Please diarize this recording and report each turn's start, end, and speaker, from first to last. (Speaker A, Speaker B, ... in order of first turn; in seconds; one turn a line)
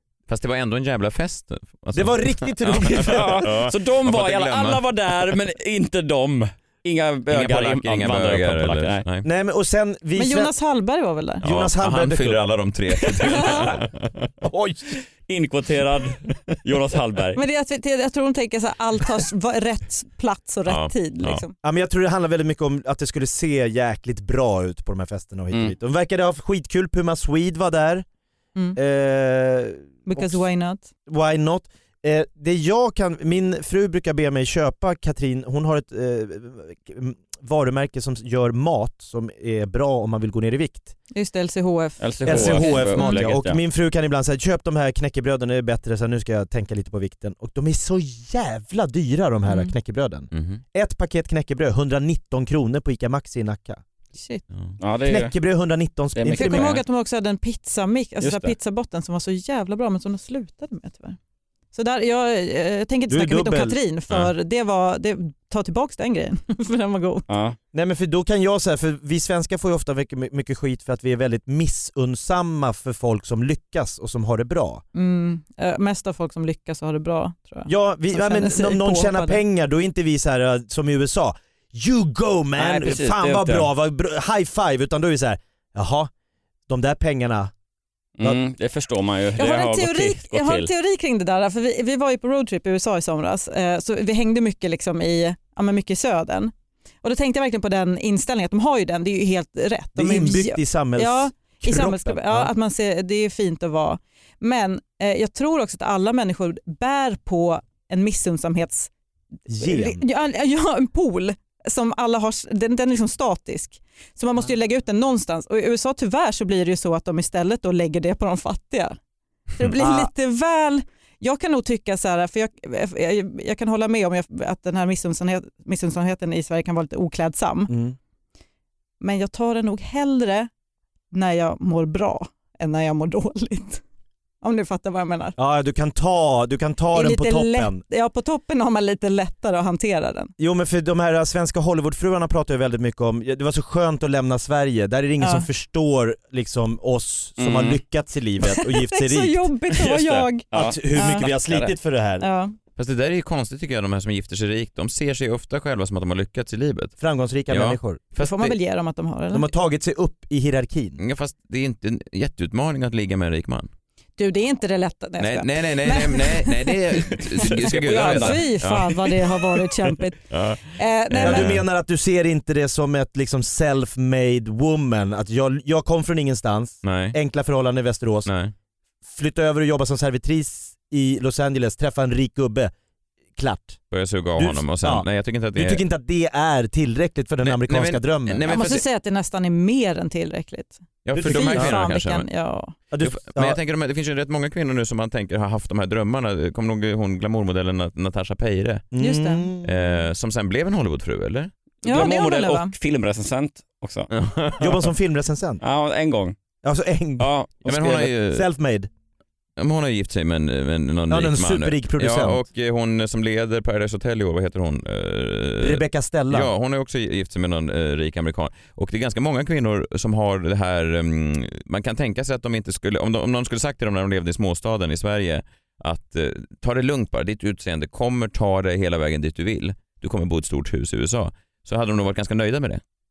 Speaker A: 0.3-4.8
Speaker B: 1.9-3.5
Speaker C: 2.8-9.0
Speaker A: 7.3-9.3
Speaker B: 9.2-10.5
Speaker D: 10.2-11.4
Speaker B: 11.4-12.4
Speaker A: 11.4-14.3
Speaker B: 14.4-15.0
Speaker C: 15.3-17.4
Speaker D: 17.4-21.5
Speaker A: 20.7-21.4
Speaker B: 21.6-28.1
Speaker B: 28.8-30.5
Speaker D: 30.1-30.9
Speaker B: 31.1-40.9
Speaker D: 41.1-43.3
Speaker C: 42.0-43.6
Speaker B: 42.2-53.8
Speaker D: 49.5-49.7
Speaker A: 50.3-50.6
Speaker D: 54.1-54.4
Speaker C: 54.8-55.3
Speaker B: 55.0-56.8
Speaker C: 56.1-56.8
Speaker D: 56.3-61.2
Speaker C: 58.2-58.5
Speaker D: 61.7-67.3
Speaker B: 63.1-63.8
Speaker C: 67.3-67.6
Speaker B: 67.7-74.8
Speaker D: 74.9-79.4
Speaker B: 77.7-86.1
Speaker C: 82.6-83.7
Speaker B: 86.7-87.5
Speaker C: 88.2-90.7
Speaker D: 89.4-96.5
Speaker D: 97.0-108.9
Speaker B: 100.0-102.5
Speaker B: 109.5-110.0
Speaker D: 109.6-119.0
Speaker D: 119.6-127.7
Speaker B: 119.8-120.1
Speaker B: 127.7-128.0
Speaker D: 129.0-130.5
Speaker D: 131.1-133.8
Speaker D: 134.4-135.4
Speaker B: 135.4-137.8
Speaker D: 136.9-140.3
Speaker B: 140.4-149.5
Speaker D: 145.2-145.5
Speaker C: 147.4-147.8
Speaker D: 148.4-151.3
Speaker C: 149.7-151.7
Speaker B: 150.5-152.3
Speaker D: 152.2-152.6
Speaker A: 152.8-156.9
Speaker B: 157.0-158.0
Speaker A: 157.5-158.6
Speaker D: 158.2-159.5
Speaker B: 159.3-161.0
Speaker A: 161.0-163.7
Speaker D: 164.2-171.5
Speaker A: 165.2-169.7
Speaker C: 167.4-168.4
Speaker A: 170.3-171.6
Speaker B: 171.2-178.3
Speaker A: 176.8-177.2
Speaker A: 178.3-178.5
Speaker B: 179.1-182.7
Speaker B: 183.4-183.8
Speaker A: 183.9-185.8
Speaker B: 184.4-188.5
Speaker A: 187.4-188.8
Speaker D: 188.5-192.8
Speaker A: 191.1-192.3
Speaker B: 191.1-191.8
Speaker B: 192.9-193.6
Speaker A: 193.0-198.9
Speaker B: 198.9-200.0
Speaker D: 199.0-199.5
Speaker A: 199.6-201.5
Speaker D: 201.8-202.7
Speaker C: 201.8-204.1
Speaker A: 204.1-204.9
Speaker B: 204.6-205.6
Speaker C: 205.6-206.3
Speaker B: 206.6-208.9
Speaker C: 207.2-207.7
Speaker A: 207.7-208.5
Speaker A: 209.6-232.8
Speaker B: 211.1-212.4
Speaker B: 215.6-216.5